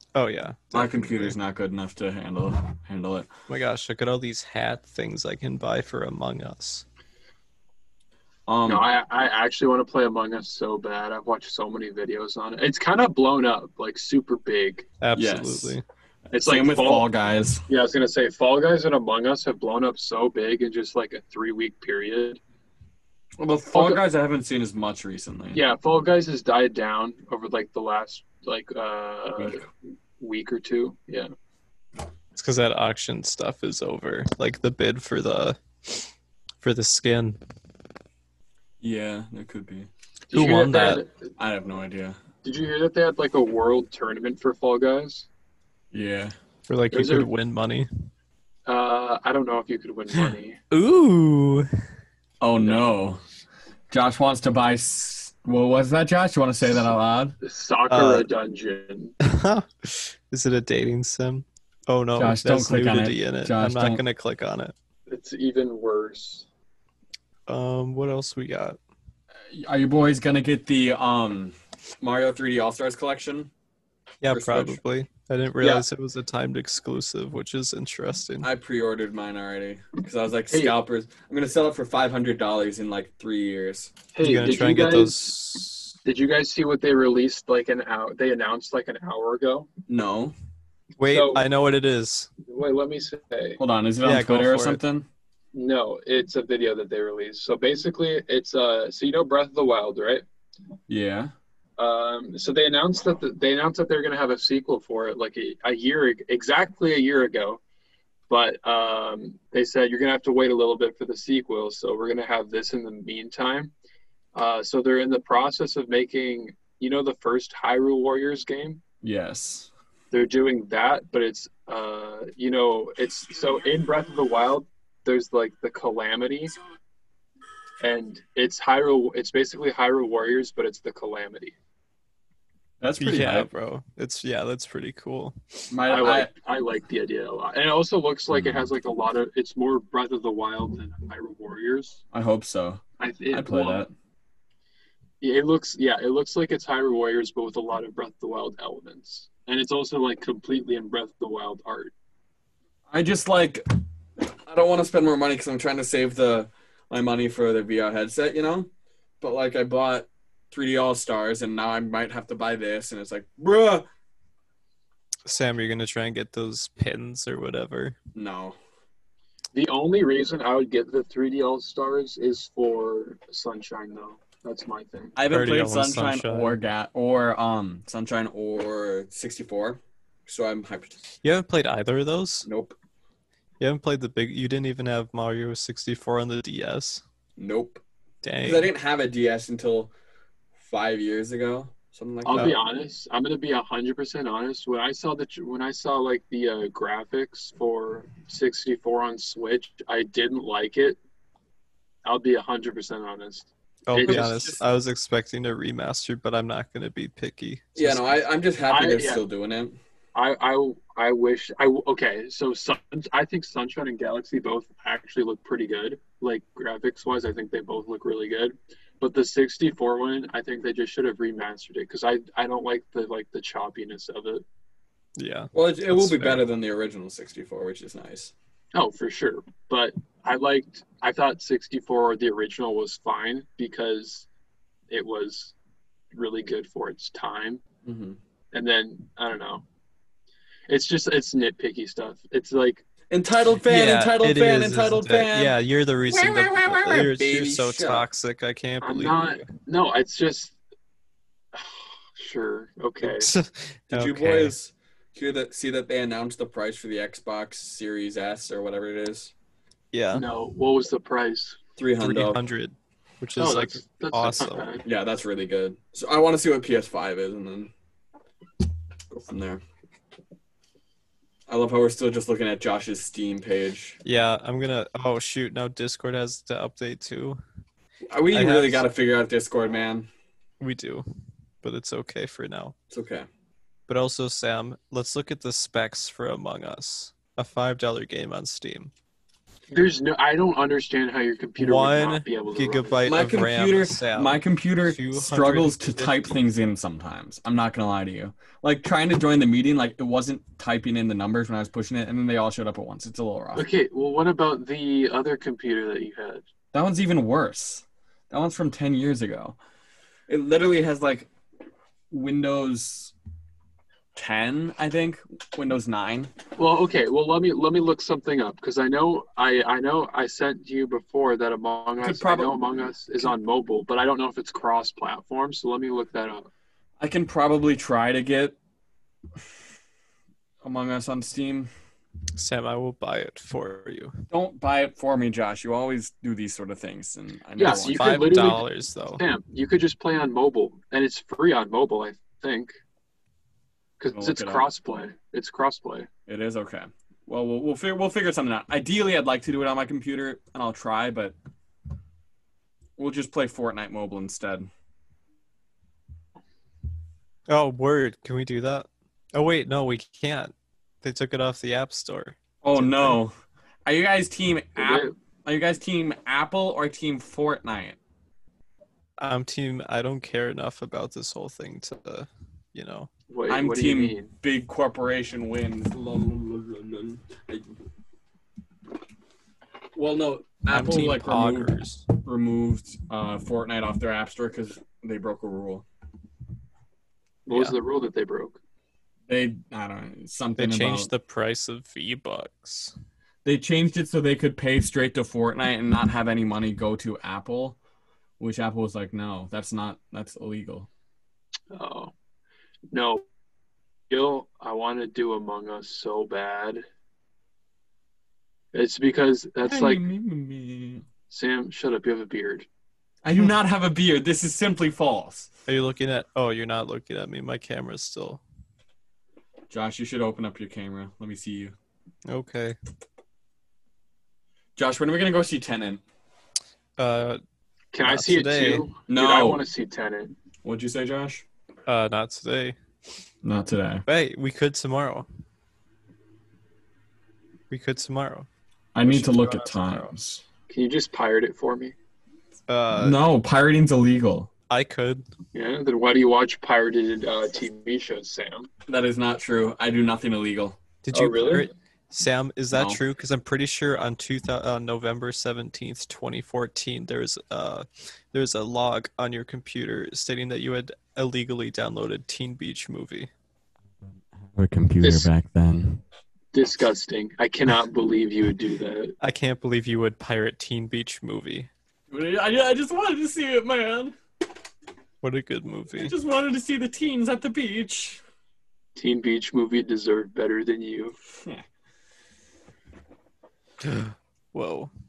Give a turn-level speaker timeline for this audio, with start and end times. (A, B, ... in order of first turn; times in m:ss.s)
0:00.1-0:01.4 A
0:00.7-0:03.3 B
0:03.5-0:06.8 A
0:08.5-0:08.8 B
0:08.6-0:14.9 C
0:15.0-0:15.8 A
0:15.1-0:15.7 B
0:16.3-0:17.0 C
0:16.3-0:17.6 B
0:17.7-0:22.4 C
0:23.4-0:25.6 B
0:23.7-0:24.0 C
0:25.5-0:29.6 C
0:29.4-0:29.6 B
0:30.2-0:31.3 C
0:32.3-0:36.1 A
0:36.6-0:37.4 A
0:38.8-0:39.9 B
0:40.3-0:41.2 C
0:40.3-0:41.0 A
0:41.4-0:42.2 B
0:42.4-0:45.3 C
0:45.9-0:46.3 B
0:46.7-0:47.9 A
0:46.9-0:47.3 C
0:48.6-0:50.6 C
0:50.7-0:51.7 A
0:52.4-0:53.2 B
0:53.9-0:57.4 B
0:57.4-0:59.2 C
0:57.9-0:58.3 A
0:59.2-1:04.7 A
1:02.2-1:04.0 B
1:05.1-1:06.4 C
1:07.5-1:08.8 A
1:09.5-1:13.5 B
1:14.2-1:18.5 A
1:14.3-1:14.8 B
1:18.4-1:24.0 B
1:24.1-1:25.4 C
1:24.2-1:25.9 A
1:26.0-1:29.7 C
1:29.9-1:30.3 B
1:31.0-1:32.3 A
1:31.1-1:31.4 C
1:32.4-1:33.6 C
1:33.6-1:35.0 B
1:34.0-1:34.8 A
1:35.5-1:40.2 C
1:40.9-1:41.3 B
1:41.8-1:47.6 C
1:48.3-1:53.7 C
1:54.3-1:58.8 C
1:59.0-1:59.7 B
2:00.1-2:06.5 C
2:07.8-2:11.6 C
2:12.8-2:13.5 B
2:13.0-2:15.6 A
2:15.7-2:16.3 B
2:15.9-2:22.0 C
2:18.3-2:18.6 B
2:22.1-2:23.9 B
2:23.0-2:23.8 C
2:25.2-2:31.9 C
2:32.9-2:33.6 B
2:34.4-2:38.7 B
2:39.2-2:43.8 B
2:45.2-2:48.0 A
2:48.1-2:48.6 B
2:49.5-2:55.2 C
2:55.2-3:01.0 B
2:55.3-2:56.6 A
3:01.2-3:02.5 A
3:02.4-3:02.7 B
3:03.6-3:07.0 A
3:07.4-3:07.8 B
3:08.2-3:08.7 A
3:08.4-3:09.9 B
3:10.6-3:12.6 B
3:12.2-3:21.0 C
3:22.0-3:24.3 C
3:23.9-3:28.1 A
3:24.0-3:24.6 B
3:27.8-3:29.8 B
3:28.7-3:29.2 C
3:30.1-3:44.4 C
3:45.2-3:46.4 A
3:45.5-3:48.3 B
3:48.7-3:54.3 C
3:54.9-3:55.5 C
3:56.1-3:57.6 C
3:57.8-3:58.2 B
3:58.5-3:59.6 C
4:00.7-4:02.8 C
4:03.1-4:05.5 B
4:03.7-4:09.4 A
4:06.1-4:08.0 B
4:08.8-4:10.6 C
4:11.5-4:13.3 C
4:13.0-4:14.5 A
4:13.9-4:19.3 B
4:19.9-4:20.3 A
4:20.1-4:21.6 C
4:21.8-4:22.4 B
4:22.0-4:24.7 A
4:23.4-4:24.8 C
4:24.8-4:27.7 B
4:29.1-4:29.6 B
4:31.5-4:34.0 B
4:34.0-4:37.4 A
4:38.1-4:40.1 B
4:38.3-4:38.8 A
4:40.6-4:41.0 A
4:41.6-4:42.7 A
4:42.9-4:43.3 B
4:43.9-4:48.9 A
4:49.7-4:53.0 C
4:51.6-4:56.3 A
4:53.0-5:03.6 B
5:03.6-5:06.4 C
5:06.7-5:09.6 B
5:10.3-5:11.3 B
5:12.1-5:13.1 B
5:14.2-5:16.3 B
5:16.6-5:26.5 C
5:22.0-5:22.6 B
5:27.0-5:28.6 B
5:30.6-5:31.7 B
5:32.4-5:34.2 A
5:34.3-5:38.3 B
5:37.6-5:42.8 C
5:37.6-5:39.2 A
5:44.0-5:46.1 C
5:44.1-5:44.7 B
5:46.3-5:51.4 B
5:53.0-5:54.7 B
5:57.5-6:03.2 A
6:02.6-6:03.3 B
6:03.8-6:08.0 B
6:04.8-6:05.1 C
6:09.2-6:13.1 A
6:13.3-6:14.3 C
6:13.5-6:17.7 B
6:19.9-6:25.8 B
6:20.7-6:22.0 A
6:27.4-6:28.6 C
6:27.5-6:27.7 A
6:29.3-6:31.1 B
6:30.6-6:32.9 A
6:33.4-6:37.8 B
6:38.4-6:40.9 B
6:41.7-6:42.1 C
6:42.9-6:43.2 C
6:44.1-6:46.8 C
6:48.7-6:50.0 C
6:49.6-6:51.0 B
6:51.3-6:52.7 C
6:53.2-6:55.5 B
6:55.7-6:58.4 A
6:59.7-7:01.7 B
7:02.3-7:02.8 A
7:04.8-7:06.0 B
7:07.0-7:07.4 A
7:07.9-7:10.3 C
7:08.0-7:08.9 A
7:09.1-7:09.6 B
7:10.6-7:11.4 B
7:11.9-7:12.8 A
7:13.4-7:14.0 B
7:14.1-7:15.3 A
7:17.7-7:18.5 A
7:18.9-7:20.4 B
7:19.0-7:20.1 A
7:20.7-7:21.9 C
7:22.7-7:23.2 A
7:22.9-7:24.5 B
7:24.7-7:25.2 A
7:25.5-7:28.7 C
7:28.9-7:30.8 B
7:31.0-7:43.3 A
7:31.1-7:31.7 C
7:32.7-7:33.0 B
7:44.4-7:46.0 B
7:45.0-7:45.3 C
7:46.5-7:49.2 C
7:49.2-7:51.7 A
7:52.1-7:54.1 B
7:55.2-7:56.1 A
7:56.0-7:58.2 B
7:59.0-8:01.2 C
8:03.8-8:04.9 A